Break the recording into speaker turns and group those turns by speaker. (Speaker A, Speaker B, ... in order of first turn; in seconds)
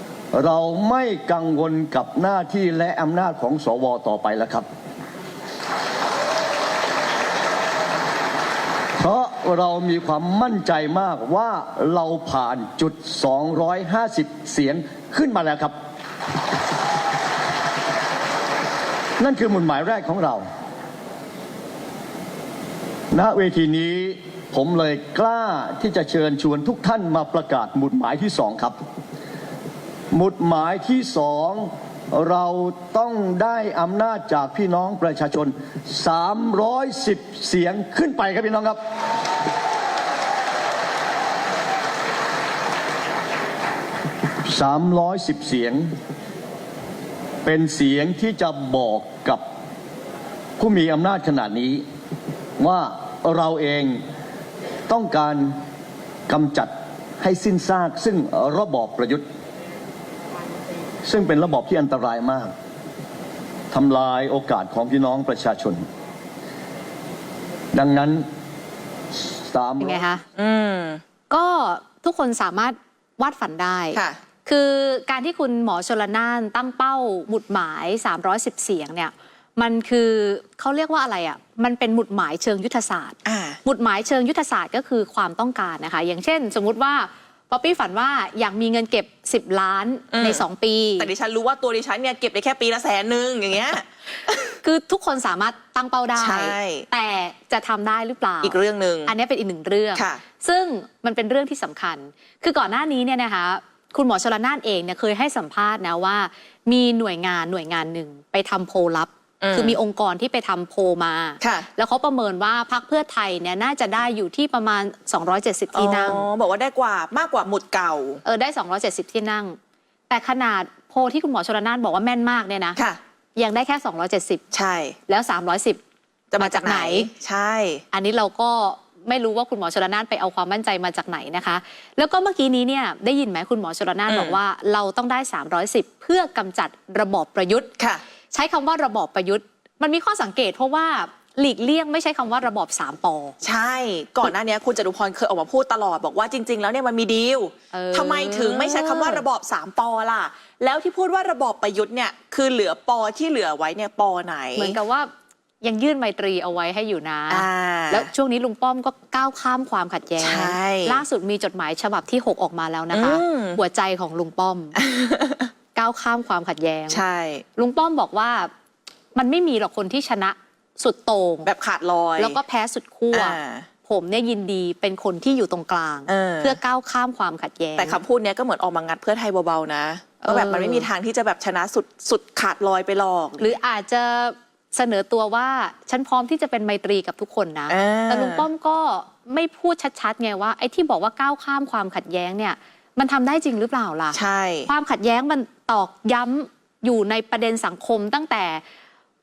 Speaker A: 0.3-4.7, 9.0-15.7, 19.2-20.4, 23.1-28.8, 30.1-38.8, 44.4-45.9, 47.4-49.4, 50.6-51.8, 52.6-54.0, 54.9-55.5, 56.3-59.2, 61.0-62.5, 63.7-65.8, 67.7-68.2, 69.2-70.0
Speaker B: 69.8-70.2, 71.3-91.1, 94.6-116.2, 118.2-119.6, 120.1-122.8, 123.3-124.4, 125.1-125.8, 126.4-127.1, 127.9-137.7, 138.3-143.3, 147.7-149.2, 154.6-164.8, 165.7-167.0, 167.6-168.5, 169.1-171.5, 172.2-178.0, 180.2-180.9, 183.4-198.6
Speaker C: 70.3-71.0, 83.2-83.6, 90.1-90.4, 91.0-94.5, 96.2-96.9, 98.4-99.1, 99.9-100.2, 109.4-109.8, 111.4-111.7, 115.7-118.2, 124.5-125.0, 126.3-127.8, 134.1-134.4, 143.4-154.8, 157.3-158.1, 160.2-161.0, 162.9-163.6, 164.8-165.5, 166.9-167.4, 171.4-172.4, 173.1-173.7, 176.1-176.6, 177.8-183.5, 187.7-188.5, 194.1-194.7